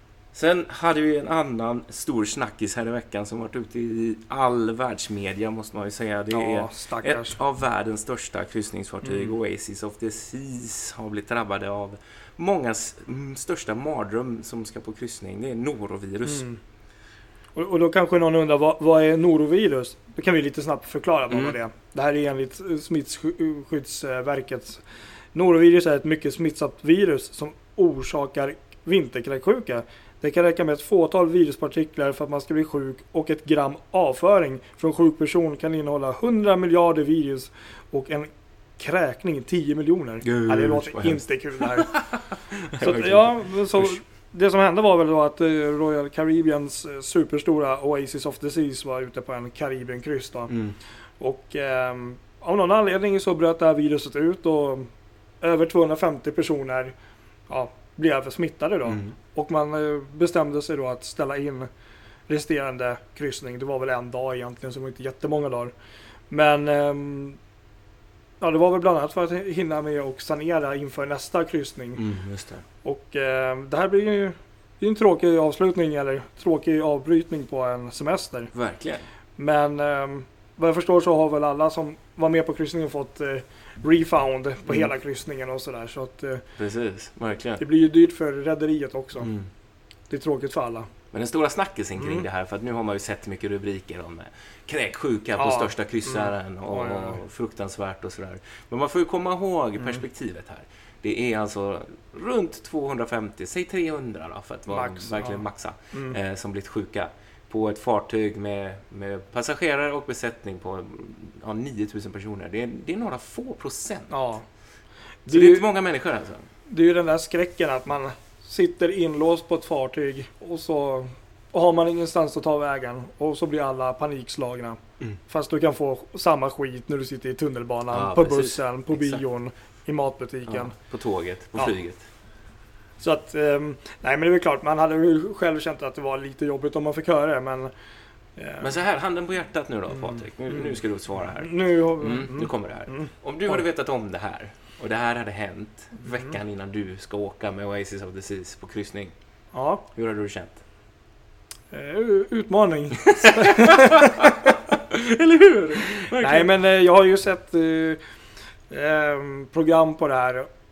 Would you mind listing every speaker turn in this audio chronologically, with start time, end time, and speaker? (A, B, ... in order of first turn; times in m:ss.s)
0:00.3-0:16.4 A
0:06.3-0:07.4 B
0:09.0-0:09.3 B
0:16.2-0:16.6 B
0:17.6-0:41.9 B
0:21.3-0:21.6 A
0:40.2-0:44.0 A
0:42.8-0:50.5 B
0:50.5-0:50.8 A
0:51.2-0:54.9 B
0:55.4-0:56.9 B
0:57.5-1:01.7 B
0:58.9-0:59.2 A
1:02.3-1:05.7 B
1:06.3-1:07.4 B
1:08.4-1:12.0 B
1:12.0-1:12.6 A
1:12.8-1:18.5 B
1:18.5-1:19.0 A
1:19.4-1:26.4 B
1:26.6-1:27.6 A
1:27.6-1:29.3 B
1:29.2-1:29.5 A
1:30.1-1:30.9 B
1:31.1-1:54.2 A
1:32.0-1:32.3 B
1:35.4-1:37.2 B
1:44.7-1:46.2 B
1:54.1-1:54.4 B
1:55.3-1:55.7 B
1:55.3-1:56.5 A
1:56.7-2:10.8 B
2:07.9-2:09.2 A
2:10.5-2:12.0 A
2:13.0-2:17.7 B
2:18.4-2:18.7 B
2:18.6-2:29.1 A
2:19.9-2:23.1 B
2:29.5-2:29.8 B
2:29.9-2:30.6 A
2:31.7-2:34.3 B
2:33.2-2:36.5 A
2:36.2-2:38.0 B
2:38.7-2:40.5 B